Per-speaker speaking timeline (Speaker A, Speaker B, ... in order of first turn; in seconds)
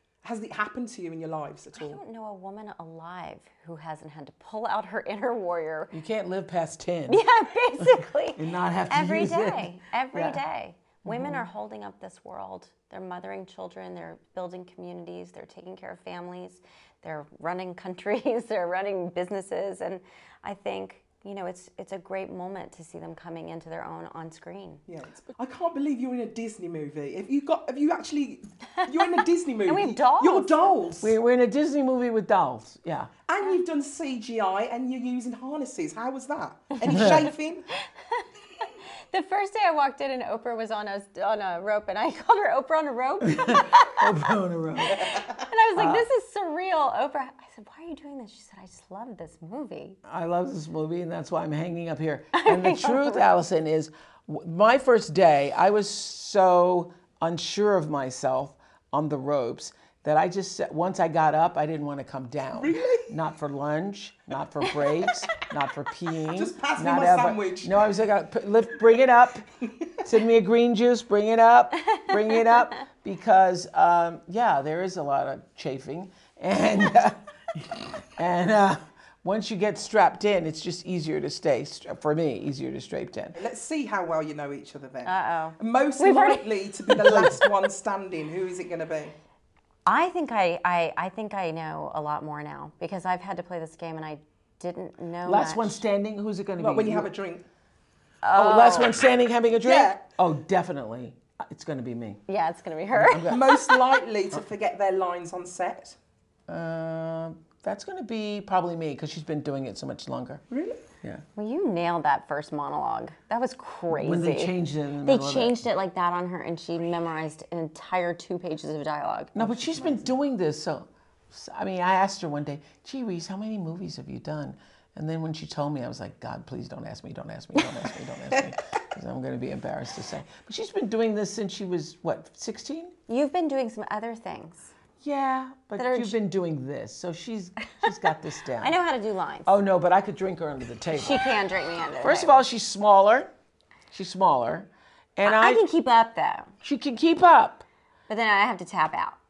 Speaker A: 0.2-2.0, 24.9-31.2, 33.2-37.6, 62.5-63.1, 66.3-67.9, 83.4-89.1, 96.6-97.4, 99.6-100.0, 103.2-106.0, 110.5-110.8
Speaker B: 1.7-5.9, 7.1-24.8, 29.6-30.8, 38.0-44.1, 44.8-50.0, 52.4-53.3, 64.6-65.2, 72.1-72.7, 85.0-87.5, 89.9-95.8, 98.2-99.0, 102.3-103.9, 111.4-120.1, 133.1-134.7, 135.8-136.2, 138.5-139.6, 140.9-142.4, 145.2-146.5, 148.1-149.2
Speaker C: 5.9-7.2, 7.8-10.4, 11.1-11.5, 31.0-33.1, 36.9-37.2, 43.2-45.0, 45.8-46.1, 50.0-69.4, 70.0-83.4, 87.0-87.4, 95.2-97.1, 98.3-102.2, 102.9-103.5, 106.5-110.4, 113.9-115.6, 119.3-132.9, 135.0-138.8, 139.4-141.3, 142.0-143.3, 143.9-145.7, 146.6-147.6